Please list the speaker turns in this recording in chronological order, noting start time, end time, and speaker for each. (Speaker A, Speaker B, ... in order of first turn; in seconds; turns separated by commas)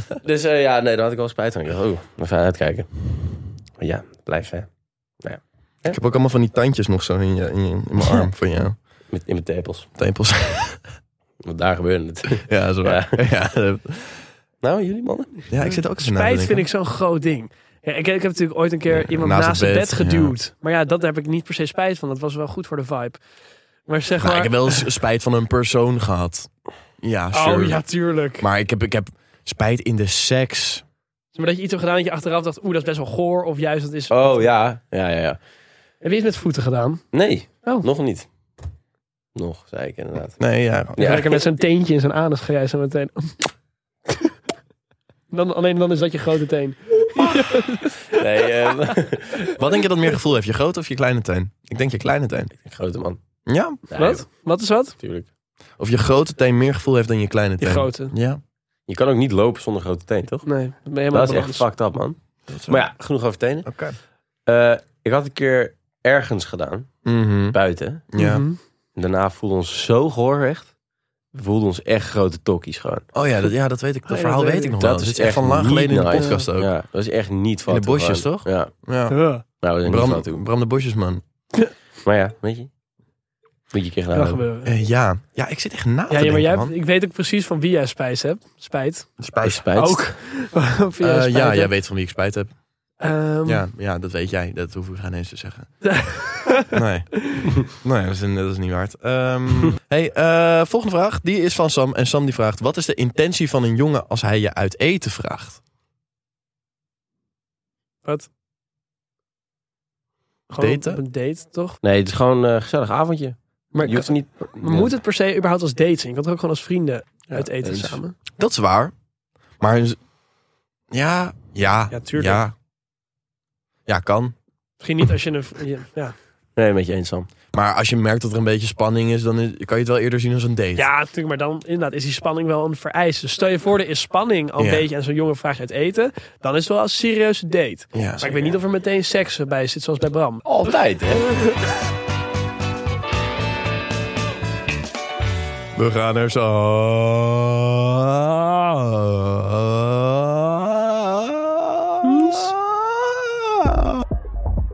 Speaker A: 0.2-4.7, Speaker A: 5.2-6.0, Speaker B: 5.8-8.8, Speaker A: 9.1-9.9, Speaker B: 10.0-10.8, Speaker A: 11.4-13.2, Speaker B: 12.4-14.2, Speaker A: 14.6-15.5, Speaker B: 15.5-16.6, Speaker C: 15.6-23.2, Speaker B: 18.9-20.3, Speaker C: 23.9-24.8, Speaker B: 24.2-26.5, Speaker B: 27.0-27.8, Speaker C: 27.3-28.4, Speaker B: 28.4-30.8, Speaker C: 31.3-34.5, Speaker A: 34.1-35.4, Speaker C: 36.0-37.0, Speaker A: 37.1-38.3, Speaker A: 39.3-40.4, Speaker B: 40.4-41.1, Speaker A: 41.0-41.4, Speaker C: 41.0-43.5, Speaker C: 45.3-48.2, Speaker A: 48.1-49.5, Speaker B: 49.5-52.5, Speaker A: 52.6-53.2, Speaker B: 53.5-53.8, Speaker A: 53.9-54.2, Speaker C: 54.0-55.0, Speaker A: 55.0-55.3, Speaker B: 55.8-58.4, Speaker C: 57.6-58.1, Speaker A: 58.9-60.5, Speaker C: 60.5-61.6, Speaker A: 61.1-63.7, Speaker B: 62.5-62.8, Speaker B: 63.6-64.0, Speaker A: 64.5-66.9, Speaker B: 67.0-67.6, Speaker A: 67.5-68.1, Speaker B: 68.1-68.4, Speaker C: 68.2-68.6, Speaker A: 69.0-70.7, Speaker A: 71.3-73.0, Speaker B: 73.1-76.7, Speaker C: 74.1-74.7, Speaker A: 74.8-78.7, Speaker C: 76.2-76.5, Speaker B: 77.7-79.2, Speaker C: 79.1-79.4, Speaker A: 79.6-80.4, Speaker B: 79.8-81.2, Speaker A: 82.0-82.7, Speaker A: 83.7-84.4, Speaker C: 84.1-84.7, Speaker B: 84.6-86.7, Speaker C: 86.1-89.1, Speaker B: 89.2-89.6, Speaker A: 89.4-90.0, Speaker C: 89.7-91.7, Speaker B: 91.0-92.5, Speaker C: 93.0-93.7, Speaker B: 93.5-95.7, Speaker C: 95.8-96.8, Speaker B: 96.7-97.1, Speaker B: 97.6-105.6, Speaker C: 110.5-111.8, Speaker B: 110.6-111.0, Speaker A: 111.8-114.9, Speaker C: 113.7-118.1, Speaker A: 117.3-118.0, Speaker B: 118.4-118.9, Speaker B: 119.6-120.0, Speaker B: 120.9-122.5, Speaker C: 121.9-122.4, Speaker B: 123.9-124.3, Speaker C: 124.8-126.1, Speaker A: 126.5-127.3, Speaker B: 127.5-130.8, Speaker C: 130.8-140.4, Speaker B: 134.6-134.8, Speaker B: 137.9-138.2, Speaker A: 138.2-138.5, Speaker A: 140.4-141.2, Speaker B: 145.7-154.0, Speaker A: 152.1-152.5